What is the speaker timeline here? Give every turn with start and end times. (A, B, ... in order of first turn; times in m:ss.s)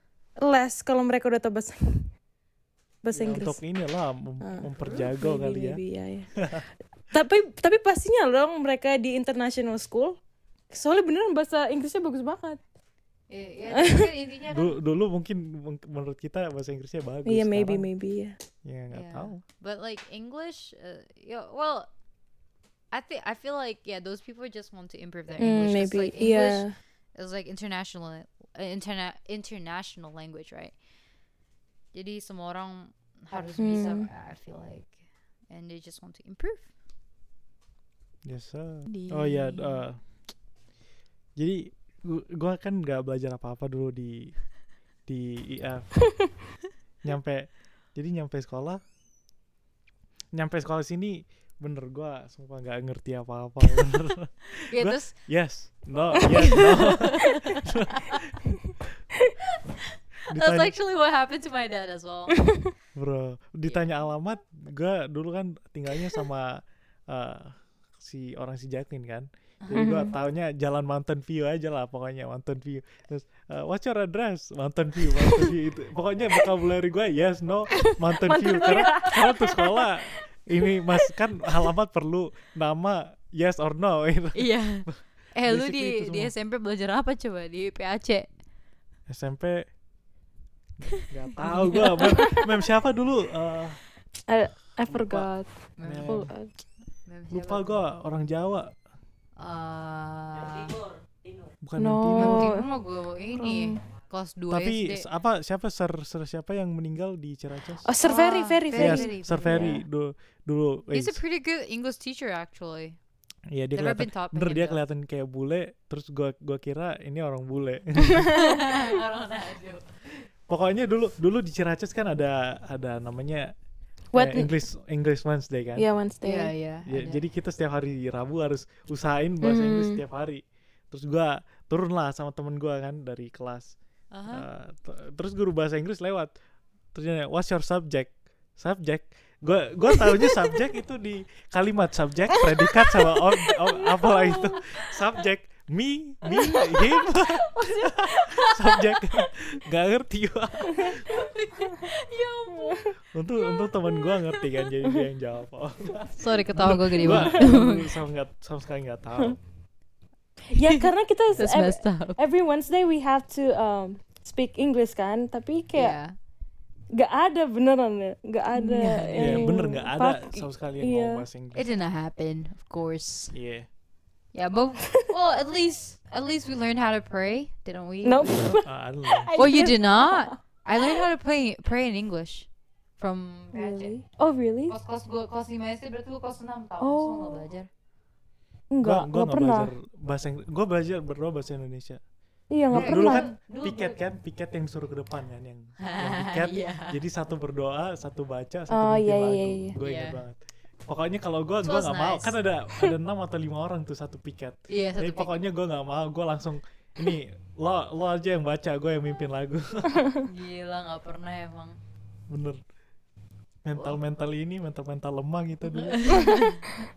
0:00.4-0:02.1 A
0:03.0-0:03.6 A
0:03.1-0:05.8 B
0:04.4-0:06.5 A
0:06.4-0:06.6 B
0:07.1-0:10.2 A
0:10.7-0:12.6 A
0:13.3-0:14.8 C
0:13.7-0:14.1 A
0:14.5-0:17.9 B
0:17.3-0:18.4 A
0:18.6-0:19.4 B
0:18.9-0:21.9 C
0:22.9-0:30.8 C
0:25.4-0:26.8 A
0:31.9-0:35.0 C
0:33.6-0:34.1 A
0:35.5-0:36.7 C
0:38.2-0:40.0 B
0:38.9-0:39.8 C
0:41.4-0:44.4 B
0:45.1-0:45.9 B
0:47.0-0:48.8 B
0:50.3-0:58.4 B
0:54.7-0:55.1 C
0:56.2-0:58.3 C
0:56.4-0:56.6 A
0:59.5-1:02.4 C
1:00.3-1:00.7 B
1:03.0-1:26.3 B
1:09.6-1:10.0 C
1:09.7-1:10.1 A
1:17.8-1:20.1 A
1:18.6-1:19.1 C
1:20.7-1:21.1 A
1:24.4-1:28.3 C
1:29.1-1:29.7 B
1:30.9-1:32.4 C
1:31.0-1:33.8 B
1:31.6-1:32.4 A
1:34.3-1:35.5 A
1:34.9-1:35.3 B
1:35.8-1:36.3 C
1:35.8-1:36.3 B
1:36.0-1:36.5 A
1:37.1-1:37.8 C
1:37.3-1:38.7 B
1:39.4-1:40.8 C
1:41.6-1:42.6 B
1:41.8-1:42.7 A
1:42.2-1:45.1 C
1:43.4-1:43.8 A
1:44.5-1:47.9 B
1:47.8-1:49.8 A
1:48.0-1:49.8 C
1:48.8-1:51.2 B
1:50.9-1:53.0 C
1:53.5-1:58.4 B
1:53.7-1:54.8 C
1:58.3-1:59.9 C
2:00.5-2:03.5 B
2:04.1-2:04.5 A
2:04.1-2:05.9 B
2:05.8-2:06.5 A
2:06.2-2:07.2 C
2:06.9-2:13.8 B
2:09.4-2:10.0 A
2:14.1-2:14.5 C
2:14.3-2:16.3 B
2:16.9-2:31.1 B
2:22.6-2:24.8 C
2:26.3-2:29.2 C
2:30.8-2:34.5 C
2:32.5-2:32.9 A
2:33.1-2:39.4 B
2:36.0-2:37.9 C
2:37.0-2:37.6 A
2:40.5-2:46.0 A
2:40.6-2:42.2 C
2:45.8-2:46.1 C
2:46.9-2:51.2 A
2:48.6-2:49.5 C
2:49.2-2:51.7 B
2:51.5-2:53.3 C
2:53.3-2:53.7 B
2:54.3-2:58.6 C
2:58.0-3:01.0 A
2:58.6-2:59.5 B
2:59.4-3:03.9 C
3:03.5-3:04.8 A
3:04.7-3:07.7 C
3:06.8-3:07.4 A
3:08.7-3:09.7 A
3:08.8-3:12.0 B
3:12.5-3:13.3 A
3:12.7-3:30.1 B
3:12.7-3:14.0 C
3:15.8-3:17.0 C
3:18.7-3:19.8 A
3:19.8-3:20.2 C
3:21.6-3:22.4 C
3:24.7-3:25.3 C
3:30.2-3:31.8 C
3:32.3-3:32.6 B
3:33.6-3:36.1 B
3:35.7-3:36.6 C
3:36.2-3:36.5 A